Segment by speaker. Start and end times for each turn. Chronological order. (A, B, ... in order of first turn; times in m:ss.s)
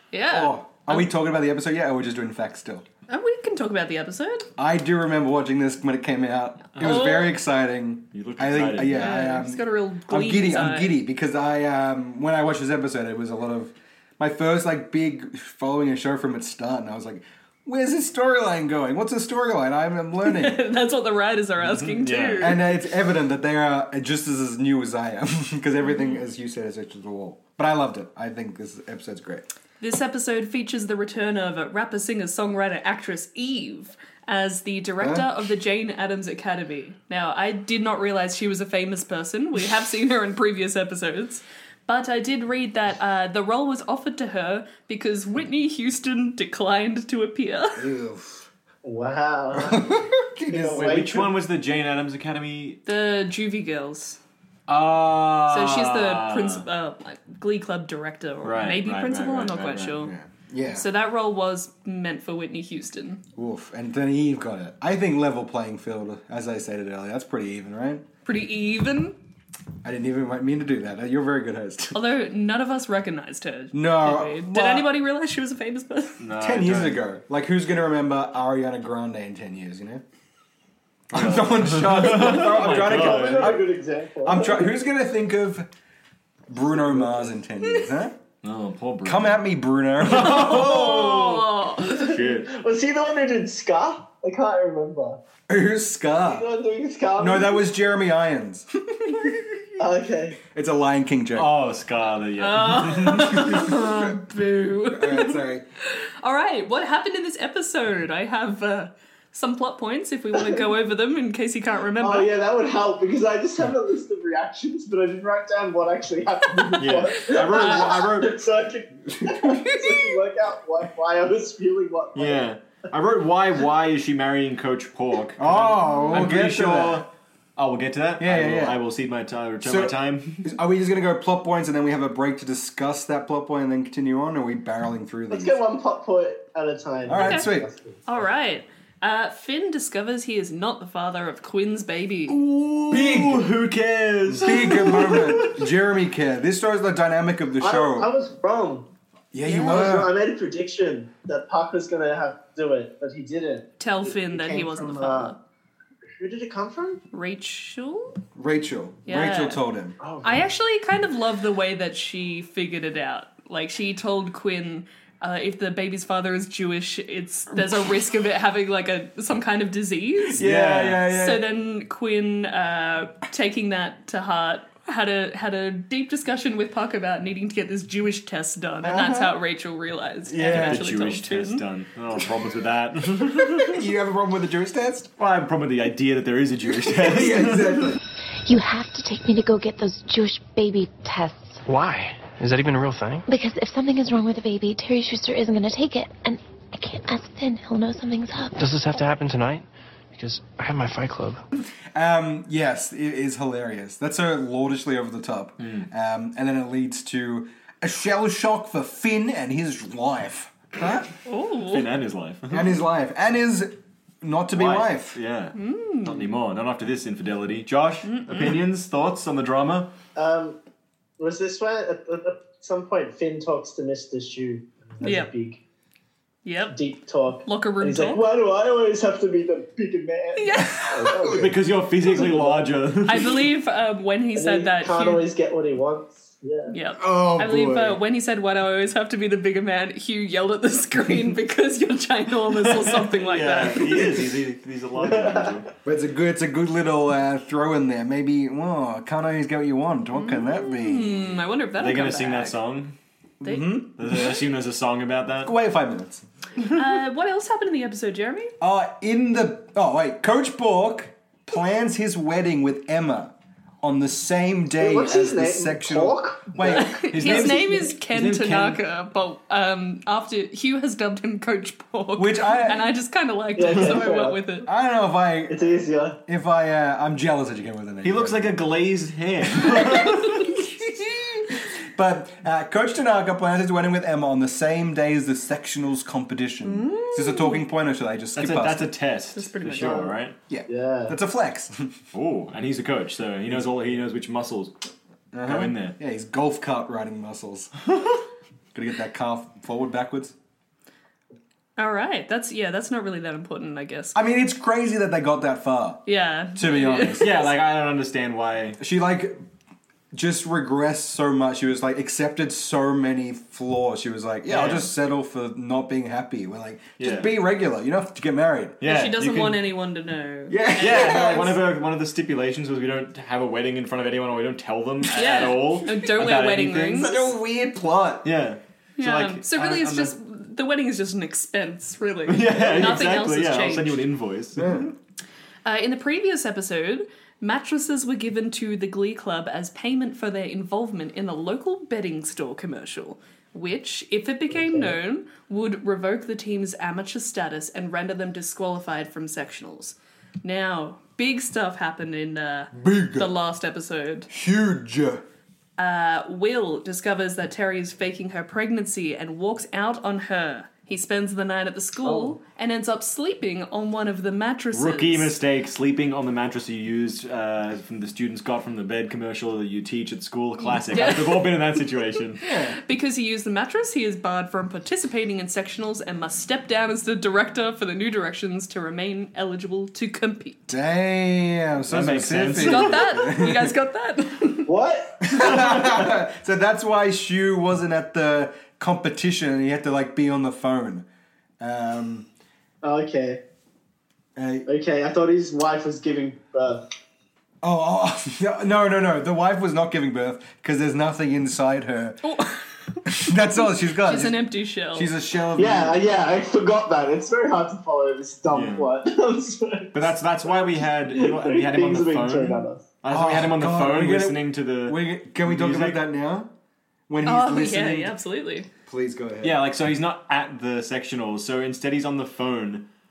0:00.1-0:01.1 A
0:00.3-0:02.9 B
0:03.1-0:04.5 A
0:04.6-0:20.6 B
0:06.8-0:07.0 C
0:06.8-0:07.4 A
0:08.1-0:09.1 C
0:08.9-0:11.0 A
0:20.2-0:22.6 A
0:21.7-0:22.6 C
0:22.4-0:29.5 B
0:29.8-0:47.9 A
0:35.0-0:35.5 B
0:47.8-0:48.5 B
0:48.8-0:49.9 D
0:49.5-0:51.2 B
0:50.5-0:51.3 D
0:50.7-0:52.8 C
0:52.9-0:54.2 A
0:54.7-0:56.6 C
0:55.5-1:00.1 A
0:58.4-1:00.1 C
1:00.0-1:00.9 B
1:00.7-1:03.2 A
1:03.4-1:08.0 B
1:08.3-1:09.2 A
1:09.8-1:12.0 B
1:11.9-1:16.2 A
1:13.7-1:14.9 B
1:16.2-1:17.0 C
1:16.4-1:20.0 B
1:21.1-1:23.6 B
1:21.1-1:23.6 C
1:22.2-1:24.7 D
1:24.2-1:25.7 B
1:26.5-1:28.2 B
1:26.6-1:27.3 D
1:27.6-1:27.9 A
1:28.4-1:29.4 C
1:29.0-1:31.4 B
1:30.0-1:32.5 C
1:30.2-1:32.2 A
1:31.9-1:35.2 D
1:35.5-1:36.5 B
1:36.2-1:37.6 D
1:37.2-1:39.6 B
1:39.8-1:40.4 D
1:40.4-1:41.5 B
1:41.4-1:42.9 C
1:42.4-1:52.3 A
1:42.8-1:44.2 B
1:44.9-1:45.6 B
1:52.0-2:02.5 D
1:56.8-1:58.4 C
1:59.2-2:00.1 B
2:02.2-2:10.6 C
2:05.4-2:07.1 B
2:08.2-2:08.8 B
2:09.6-2:15.6 B
2:15.3-2:18.2 D
2:17.0-2:17.7 B
2:17.2-2:17.5 A
2:18.1-2:22.4 A
2:22.3-2:25.7 C
2:22.9-2:23.5 B
2:24.3-2:28.1 B
2:27.6-2:28.9 D
2:29.3-2:30.1 B
2:29.4-2:29.9 A
2:29.6-2:35.4 D
2:33.8-2:35.4 A
2:36.2-2:37.0 D
2:37.1-2:38.2 A
2:38.4-2:40.0 B
2:39.1-2:39.6 A
2:40.0-2:40.4 D
2:40.2-3:01.6 A
2:50.3-2:51.4 B
2:50.4-2:51.0 C
2:58.8-2:59.4 B
3:00.3-3:00.9 B
3:00.5-3:03.8 C
3:03.6-3:05.1 B
3:05.2-3:07.8 C
3:06.7-3:08.0 B
3:08.5-3:11.6 E
3:11.7-3:13.3 F
3:13.3-3:19.1 E
3:18.6-3:21.4 F
3:21.9-3:31.1 B
3:25.6-3:25.9 C
3:31.3-3:31.9 A
3:31.6-3:32.8 C
3:32.5-3:35.2 B
3:34.5-3:39.9 C
3:35.6-3:36.3 A
3:38.0-3:38.6 A
3:40.2-3:40.6 D
3:41.2-3:45.6 D
3:45.0-3:45.3 A
3:46.4-3:46.8 A
3:46.7-3:51.6 D
3:47.4-3:48.2 A
3:50.4-3:50.9 A
3:50.8-3:51.5 B
3:51.3-3:53.4 C
3:52.1-3:52.7 D
3:53.1-3:55.2 A
3:54.4-3:56.8 D
3:56.7-4:04.1 A
3:57.0-3:58.0 B
4:02.7-4:05.7 C
4:05.0-4:05.6 D
4:05.8-4:11.4 B
4:10.1-4:12.6 A
4:11.8-4:13.0 C
4:13.4-4:14.2 B
4:13.4-4:13.8 A
4:14.0-4:15.6 C
4:15.4-4:16.2 B
4:16.6-4:18.5 A
4:18.6-4:27.6 B
4:24.8-4:27.8 D
4:26.7-4:34.7 A
4:27.1-4:28.8 C
4:32.2-4:32.9 B
4:33.6-4:34.4 D
4:34.7-4:35.6 B
4:35.5-4:36.2 D
4:36.3-4:38.7 B
4:38.0-4:40.6 C
4:39.5-4:48.9 B
4:46.6-4:47.6 A
4:48.4-4:50.4 C
4:49.4-4:50.0 A
4:49.8-4:50.1 D
4:50.5-4:52.0 B
4:50.7-4:51.2 D
4:52.1-4:54.7 C
4:53.5-4:53.9 B
4:55.3-4:57.7 B
4:55.4-4:56.0 C
4:58.7-5:00.4 B
5:01.8-5:04.2 A
5:04.2-5:07.4 B
5:06.1-5:07.5 A
5:07.2-5:08.8 C
5:08.8-5:09.4 B
5:10.1-5:18.8 B
5:14.5-5:14.9 C
5:17.0-5:17.3 C
5:18.8-5:19.7 C
5:18.8-5:20.6 A
5:20.5-5:21.6 B
5:20.8-5:27.2 C
5:25.1-5:27.3 A
5:26.9-5:28.3 B
5:28.2-5:30.1 C
5:29.0-5:34.0 A
5:32.3-5:34.8 C
5:34.6-5:34.9 B
5:35.6-5:54.3 A
5:44.5-5:44.9 D
5:52.7-5:53.3 B
5:54.3-5:55.2 B
5:55.8-6:05.4 A
6:02.0-6:02.4 B
6:04.7-6:12.4 C
6:10.7-6:11.5 A
6:12.4-6:12.8 B
6:12.8-6:20.7 A
6:20.7-6:23.8 B
6:21.9-6:23.2 C
6:22.6-6:24.7 A
6:24.7-6:25.9 D
6:25.2-6:31.1 B
6:31.6-6:32.3 B
6:32.8-6:33.4 D
6:34.4-6:34.7 B
6:34.7-6:36.8 D
6:37.6-6:42.3 B
6:42.2-6:45.1 A
6:43.1-6:46.1 B
6:45.6-6:52.8 D
6:48.5-6:48.9 C
6:49.9-6:56.0 C
6:53.1-6:56.5 B
6:57.1-6:58.2 B
6:57.2-6:58.7 A
6:58.8-6:59.6 B
6:59.4-7:02.9 C